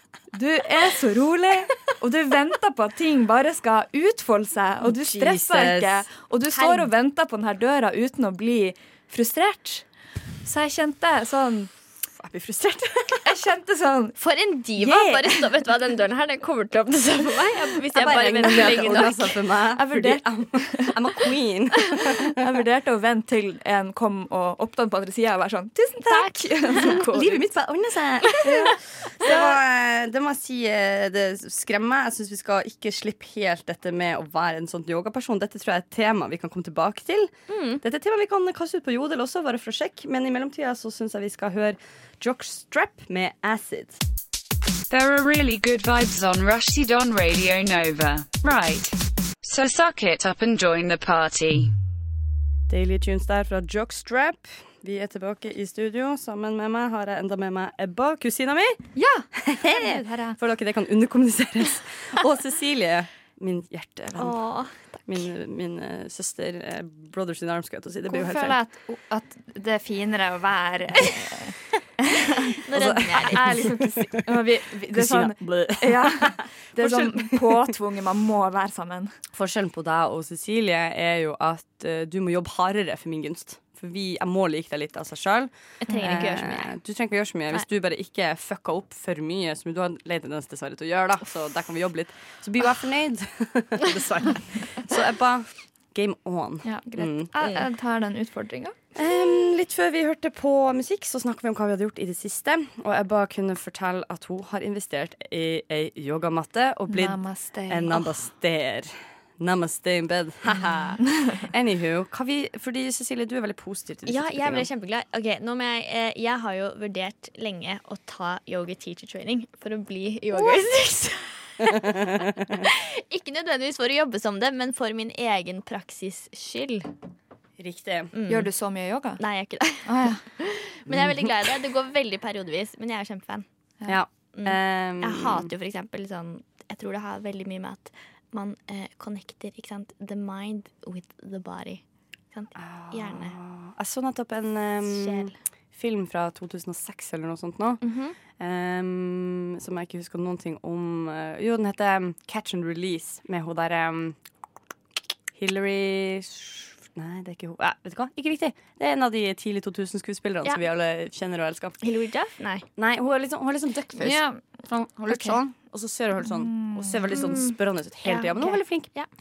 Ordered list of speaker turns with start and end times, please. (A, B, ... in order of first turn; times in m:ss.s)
0:00.3-0:09.9 A
0:04.8-0:06.1 B
0:06.5-0:06.9 C
0:10.4-0:11.7 A
0:12.2-0:13.3 B
0:13.2-0:14.2 A
0:14.2-0:19.3 C
0:14.8-0:15.5 A
0:17.9-0:22.6 B
0:18.4-0:18.9 A
0:19.7-0:21.0 A
0:22.3-0:27.4 A
0:26.0-0:27.0 C
0:26.8-0:44.0 B
0:28.2-0:28.7 C
0:37.5-0:37.8 C
0:44.9-0:51.7 D
0:52.7-1:08.6 B
0:59.0-1:00.4 A
1:04.2-1:04.8 C
1:08.1-1:19.1 A
1:12.6-1:13.6 C
1:12.8-1:14.2 B
1:14.9-1:17.7 B
1:19.3-1:37.3 B
1:25.8-1:26.7 C
1:36.6-1:38.8 A
1:39.0-1:54.7 B
1:46.9-1:48.1 A
1:54.1-2:06.9 C
2:01.9-2:02.5 B
2:07.6-2:08.1 B
2:08.1-2:08.5 C
2:08.3-2:09.2 A
2:09.2-2:13.4 C
2:09.8-2:10.2 A
2:13.9-2:15.5 B
2:14.3-2:23.4 C
2:22.5-2:27.8 B
2:24.8-2:25.3 C
2:27.8-2:28.2 C
2:28.4-2:34.2 B
2:35.3-2:41.8 B
2:41.8-2:42.6 C
2:42.8-2:48.9 B
2:44.0-2:44.4 A
2:45.1-2:45.4 A
2:46.4-2:47.1 A
2:47.1-2:47.5 C
2:48.1-2:49.1 C